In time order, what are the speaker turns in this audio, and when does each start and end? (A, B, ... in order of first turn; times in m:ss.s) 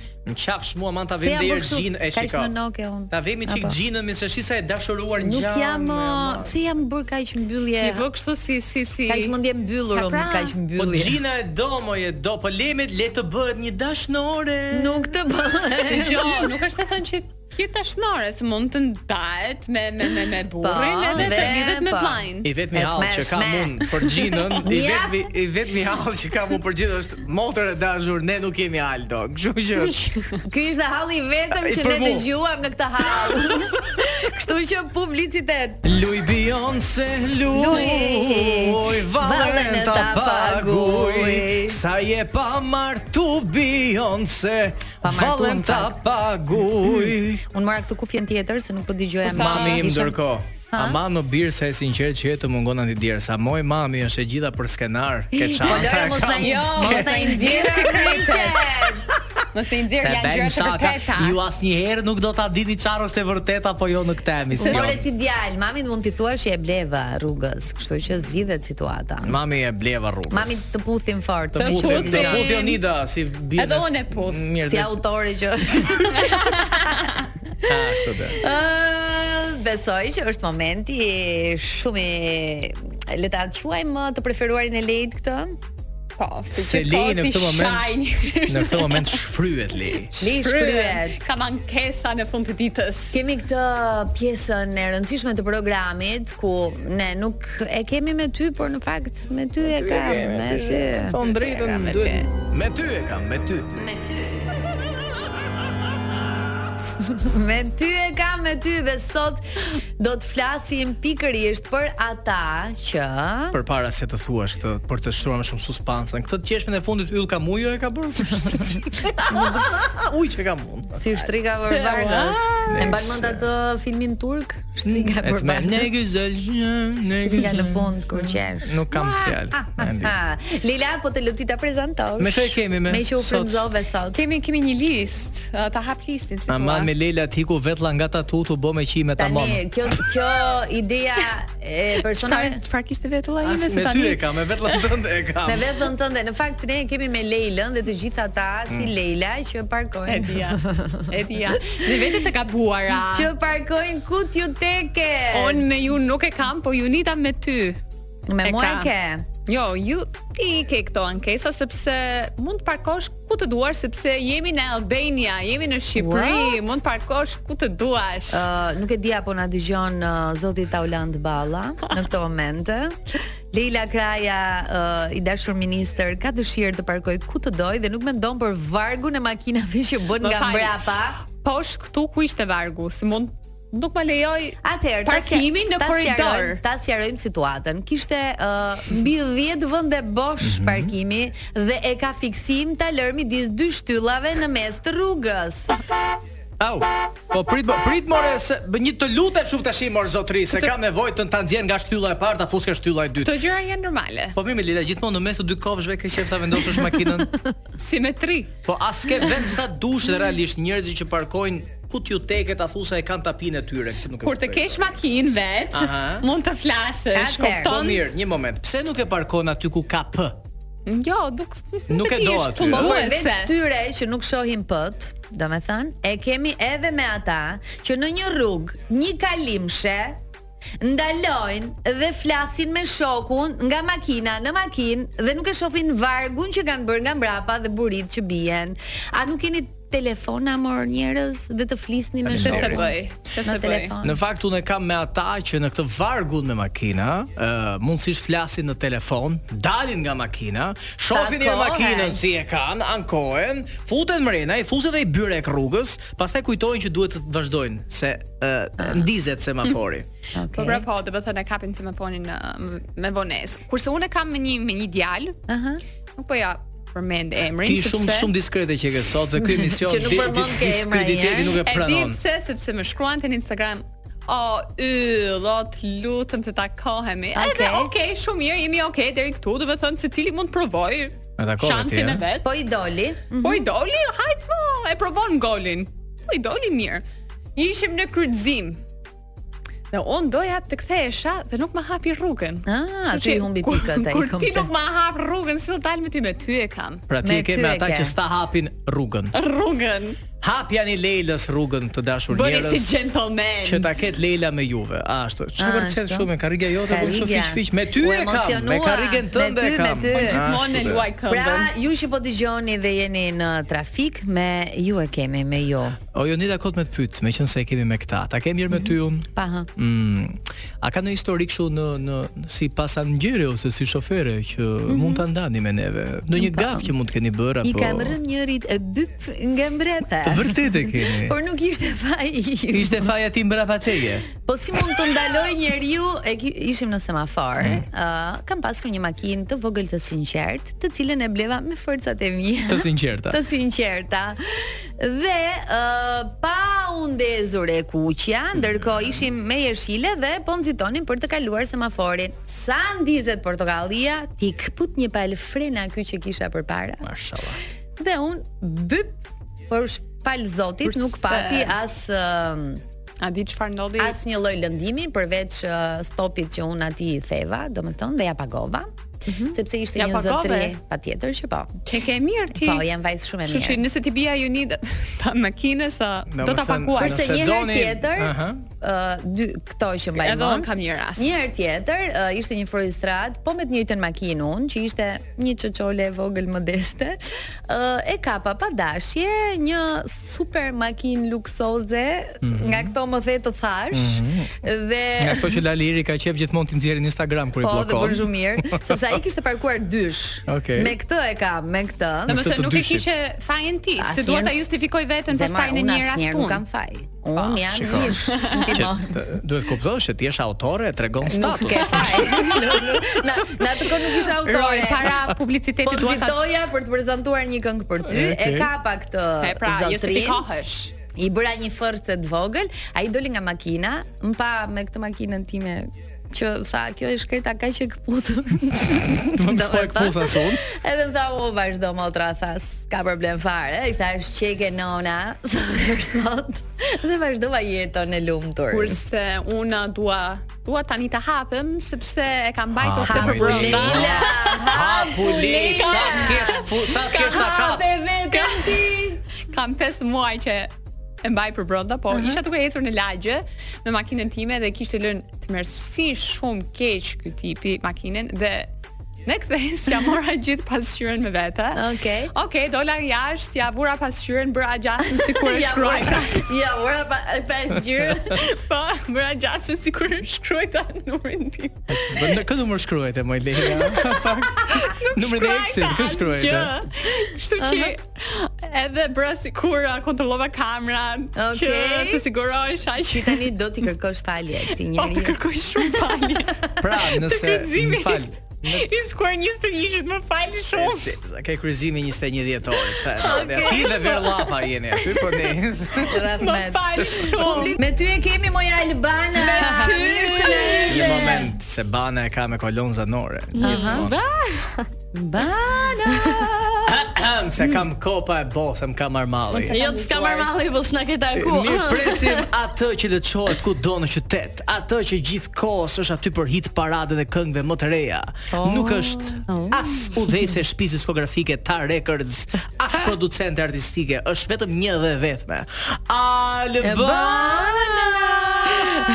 0:00.3-0:02.5 A
0:01.2-0:03.8 B
0:03.1-0:06.6 A
0:05.2-0:08.0 B
0:07.8-0:09.3 C
0:09.1-0:11.2 B
0:09.9-0:10.6 C
0:10.8-0:15.1 A
0:14.7-0:16.6 B
0:15.8-0:22.5 C
0:20.6-0:23.8 B
0:21.1-0:21.6 A
0:22.4-0:30.2 A
0:24.6-0:25.3 B
0:30.4-0:35.8 B
0:31.5-0:32.2 A
0:35.8-0:47.4 A
0:37.5-0:41.8 B
0:45.0-0:46.0 B
0:46.8-0:50.2 B
0:49.3-0:57.1 A
0:49.3-0:49.8 C
0:50.7-0:51.0 B
0:55.3-0:59.1 B
0:56.4-0:58.6 C
0:59.5-1:01.4 C
1:00.0-1:05.0 A
1:04.5-1:09.4 B
1:04.6-1:04.9 C
1:09.2-1:10.7 A
1:10.3-1:12.6 B
1:11.5-1:14.9 A
1:11.6-1:12.8 C
1:13.6-1:14.4 C
1:14.6-1:16.6 B
1:16.1-1:17.3 C
1:17.6-1:18.4 A
1:18.4-1:25.5 B
1:26.2-1:29.2 C
1:26.5-1:27.9 A
1:28.4-1:30.1 A
1:30.1-1:31.2 B
1:30.2-1:33.2 C
1:33.1-1:42.3 B
1:39.6-1:43.8 A
1:43.7-1:44.8 B
1:47.0-1:53.6 B
1:53.5-2:01.3 A
1:59.3-1:59.7 B
2:01.0-2:05.9 B
2:01.7-2:02.9 C
2:02.7-2:03.4 A
2:04.8-2:10.1 A
2:07.2-2:14.2 B
2:12.2-2:13.6 A
2:14.1-2:16.9 C
2:16.5-2:19.6 A
2:19.2-2:22.6 B
2:22.1-2:24.2 C
2:23.4-2:25.7 A
2:25.4-2:32.1 B
2:30.1-2:33.3 C
2:33.1-2:35.7 B
2:35.3-2:37.8 C
2:38.3-2:39.3 B
2:38.4-2:38.9 C
2:39.4-2:48.4 C
2:45.9-2:46.8 B
2:48.3-2:53.0 B
2:53.5-3:01.2 B
3:00.2-3:06.6 C
3:04.6-3:15.8 B
3:10.4-3:10.9 A
3:16.6-3:23.4 A
3:23.2-3:24.3 C
3:24.3-3:27.3 A
3:27.8-3:28.5 C
3:28.6-3:35.0 A
3:34.2-3:38.0 C
3:35.7-3:36.3 A
3:37.1-3:37.7 B
3:37.6-3:40.4 A
3:40.8-3:43.5 C
3:41.9-3:42.9 A
3:42.7-3:50.2 B
3:50.8-4:04.2 B
4:02.2-4:02.9 A
4:02.4-4:03.9 C
4:04.0-4:20.0 A
4:11.1-4:12.2 B
4:18.8-4:19.1 B
4:20.3-4:20.8 B
4:20.6-4:25.4 C
4:25.5-4:25.8 B
4:26.2-4:28.3 C
4:27.6-4:32.2 A
4:29.4-4:31.6 B
4:31.6-4:42.5 C
4:37.3-4:37.9 B
4:41.4-4:42.2 A
4:42.4-4:43.6 B
4:43.4-4:47.0 C
4:47.6-4:48.8 C
4:49.9-4:57.0 C
4:52.6-4:54.7 B
4:57.1-4:59.3 A
4:57.2-4:58.1 B
4:59.3-5:00.2 C
5:00.4-5:02.9 A
5:02.3-5:03.9 C
5:03.6-5:11.0 A
5:05.6-5:06.3 B
5:06.9-5:16.0 B
5:10.2-5:11.7 C
5:16.1-5:28.2 A
5:18.7-5:19.7 B
5:24.9-5:25.3 B
5:26.3-5:26.9 B
5:27.6-5:33.1 B
5:30.2-5:31.4 A
5:32.7-5:34.3 A
5:34.3-5:57.1 B
5:37.6-5:37.8 A
5:42.7-5:43.4 A
5:48.6-5:49.2 A
5:57.0-5:57.6 A
5:58.0-6:02.8 B
6:00.9-6:01.8 C
6:03.2-6:04.2 C
6:04.0-6:08.9 B
6:09.3-6:10.7 C
6:09.4-6:11.8 B
6:11.9-6:12.8 C
6:12.5-6:13.8 B
6:13.4-6:17.2 C
6:16.3-6:18.6 A
6:17.0-6:35.6 B
6:20.2-6:21.3 C
6:32.4-6:32.9 A
6:33.9-6:34.6 A
6:35.2-6:39.2 A
6:37.6-6:42.4 B
6:40.5-6:40.9 A
6:42.3-6:46.6 C
6:42.3-6:43.1 A
6:44.0-6:44.6 B
6:45.3-6:49.2 B
6:47.7-6:52.5 A
6:48.3-6:48.8 C
6:51.2-6:55.3 B
6:51.8-6:53.2 C
6:54.1-6:56.4 C
6:55.8-7:00.4 B
6:58.1-6:58.7 A
6:59.4-7:00.9 C
7:01.1-7:19.0 B
7:09.1-7:10.6 A
7:18.7-7:24.7 C
7:22.8-7:27.9 A
7:23.0-7:29.2 B
7:25.8-7:28.9 C
7:29.5-7:30.7 C
7:31.2-7:38.7 C
7:32.1-7:32.4 B
7:39.2-7:41.8 C
7:41.7-7:42.3 B
7:42.3-7:46.4 C
7:45.1-7:48.4 B
7:48.3-7:52.2 C
7:51.9-7:56.7 A
7:53.6-8:03.5 C
7:57.6-7:57.9 B
8:01.4-8:02.2 B
8:03.0-8:05.4 B
8:04.9-8:06.7 C
8:06.8-8:08.9 A
8:07.2-8:11.1 C
8:10.7-8:16.2 A
8:12.9-8:17.8 C
8:16.0-8:21.5 B
8:17.0-8:17.4 A
8:19.4-8:21.4 C
8:20.9-8:24.2 A
8:23.5-8:24.8 D
8:23.6-8:24.1 B
8:25.1-8:26.9 B
8:26.1-8:26.4 D
8:26.9-8:29.7 A
8:27.6-8:27.9 B
8:29.5-8:30.5 C
8:29.7-8:32.5 D
8:31.3-8:48.6 A
8:38.5-8:39.4 D
8:39.5-8:40.3 B
8:46.8-8:48.8 B